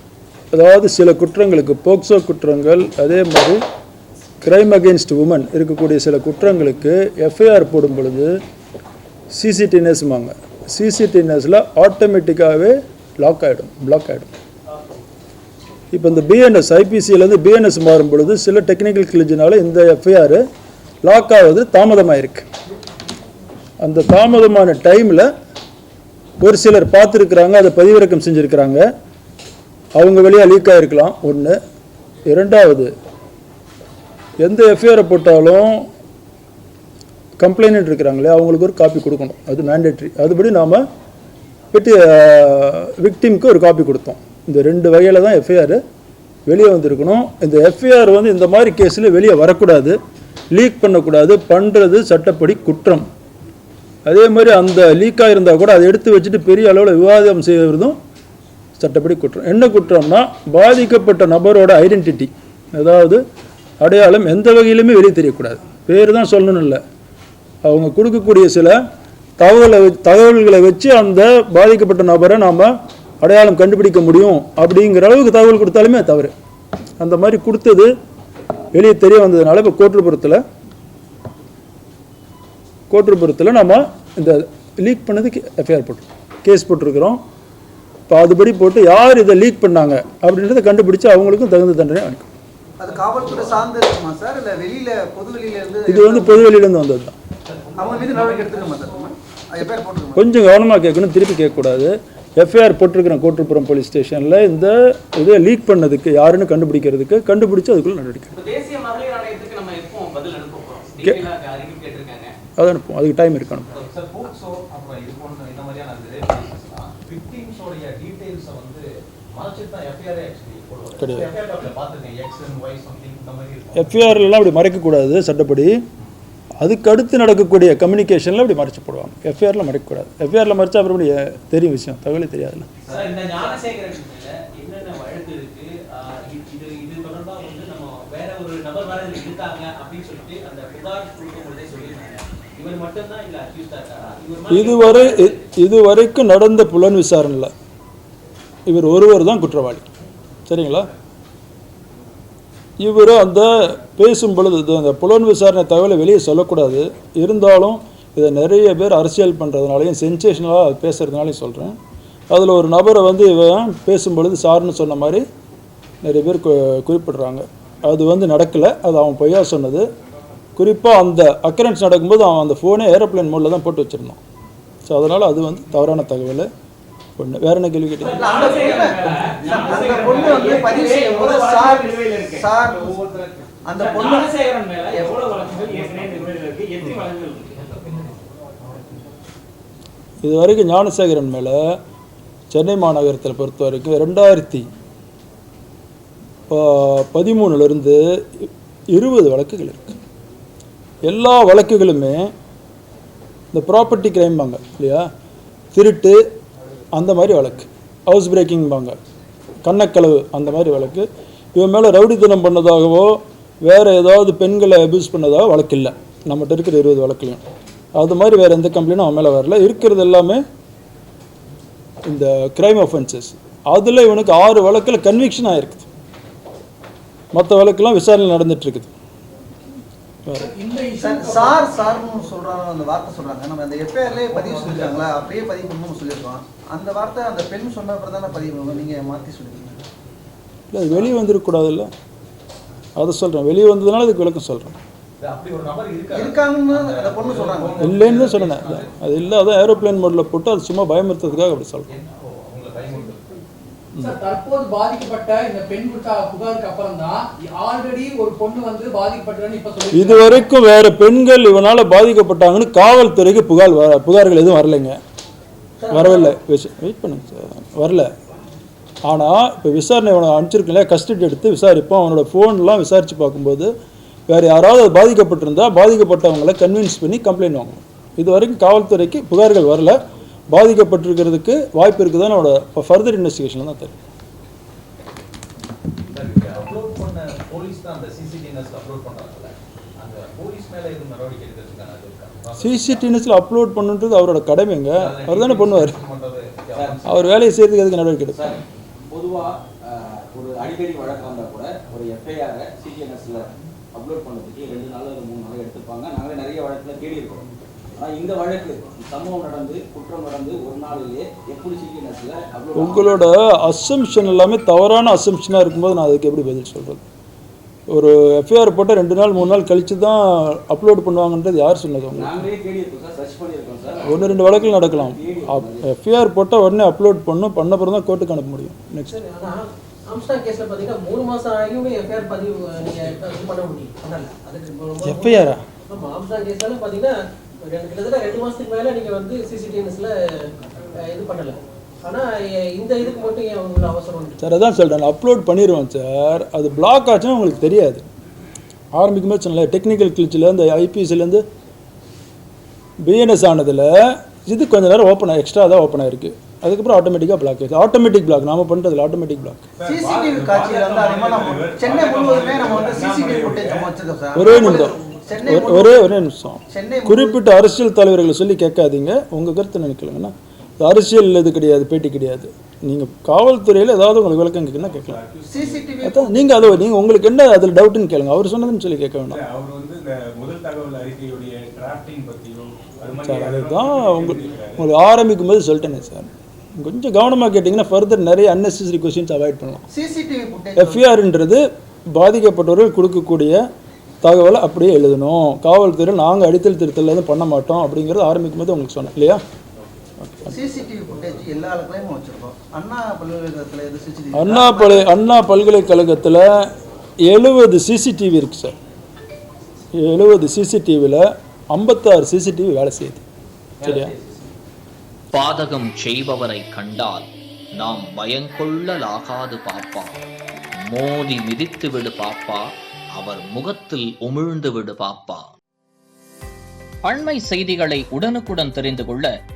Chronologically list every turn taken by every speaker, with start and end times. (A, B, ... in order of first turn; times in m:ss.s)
0:00.5-0:03.6 A
0:04.4-0:08.3 A
0:09.3-0:14.3 A
0:15.9-0:20.4 A
0:21.0-0:22.5 A
0:23.8-0:25.3 A
0:26.4-0:28.8 A
0:30.0-0:31.6 A
0:32.3-0:32.9 A
0:34.4-0:35.8 A
0:37.4-0:40.8 A
0:41.7-0:45.8 A
0:46.4-0:50.0 A
0:50.5-0:53.0 A
0:54.0-0:58.0 A
0:58.8-1:03.2 A
1:03.8-1:06.8 A
1:07.6-1:08.8 A
1:09.4-1:16.3 A
1:17.0-1:17.9 A
1:18.7-1:20.4 A
1:22.9-1:27.2 A
1:28.1-1:32.3 A
1:32.8-1:36.5 B
1:35.9-1:37.1 A
1:37.5-1:38.0 C
1:37.8-1:40.2 B
1:38.1-1:38.6 D
1:40.2-1:48.3 A
1:48.3-1:52.3 D
1:52.6-1:53.7 A
1:53.7-2:04.0 C
2:01.0-2:01.3 A
2:03.7-2:05.7 A
2:06.6-2:12.7 A
2:12.8-2:25.4 D
2:12.9-2:13.4 C
2:24.5-2:27.5 A
2:28.7-2:29.8 A
2:30.5-2:30.9 A
2:32.8-2:41.8 A
2:42.3-2:45.2 A
2:46.0-2:49.8 A
2:50.6-2:54.2 A
2:54.8-2:56.5 A
2:57.2-2:58.3 A
2:58.0-3:08.0 D
2:58.1-3:03.0 B
3:03.6-3:04.4 B
3:04.9-3:05.3 B
3:10.2-3:11.6 A
3:12.5-3:14.6 A
3:16.5-3:20.0 A
3:21.1-3:22.3 A
3:23.5-3:25.0 A
3:25.7-3:26.2 A
3:27.0-3:29.0 A
3:29.6-3:37.4 A
3:38.0-3:40.4 A
3:42.1-3:45.9 A
3:47.3-3:48.9 A
3:50.3-3:51.7 E
3:51.0-3:59.8 B
3:54.0-3:55.2 C
4:00.7-4:01.9 A
4:03.0-4:04.8 A
4:05.2-4:08.9 C
4:06.1-4:08.0 B
4:07.8-4:11.9 A
4:11.9-4:13.4 C
4:14.0-4:20.5 E
4:19.9-4:25.0 A
4:25.8-4:26.3 F
4:25.9-4:28.1 A
4:29.1-4:33.7 A
4:34.3-4:40.0 A
4:40.5-4:44.0 A
4:46.1-4:53.0 C
4:52.6-4:56.0 A
4:55.0-4:57.3 C
4:56.7-4:57.0 G
4:57.0-4:58.5 A
4:58.3-5:13.2 G
5:12.8-5:17.0 A
5:17.9-5:22.4 A
5:22.1-5:25.9 G
5:24.0-5:29.1 A
5:29.1-5:37.1 F
5:35.0-5:35.6 A
5:37.7-5:40.1 F
5:41.0-5:44.4 F
5:44.4-5:48.1 A
5:48.9-5:51.4 A
5:53.0-5:59.6 A
5:59.8-6:03.9 H
5:59.8-6:06.1 B
6:04.3-6:15.2 A
6:06.7-6:07.4 B
6:14.9-6:16.0 H
6:15.5-6:16.7 B
6:16.0-6:19.4 A
6:19.3-6:24.9 H
6:23.2-6:29.9 A
6:29.9-6:31.0 B
6:30.8-6:31.6 A
6:32.1-6:33.6 A
6:34.2-6:39.4 A
6:40.2-6:40.5 A
6:40.5-6:45.1 B
6:44.3-6:46.5 A
6:47.3-6:48.8 A
6:50.0-6:53.2 A
6:53.8-6:54.1 A
6:53.8-6:54.2 D
6:55.3-7:00.2 I
7:00.8-7:05.5 I
7:07.0-7:09.3 I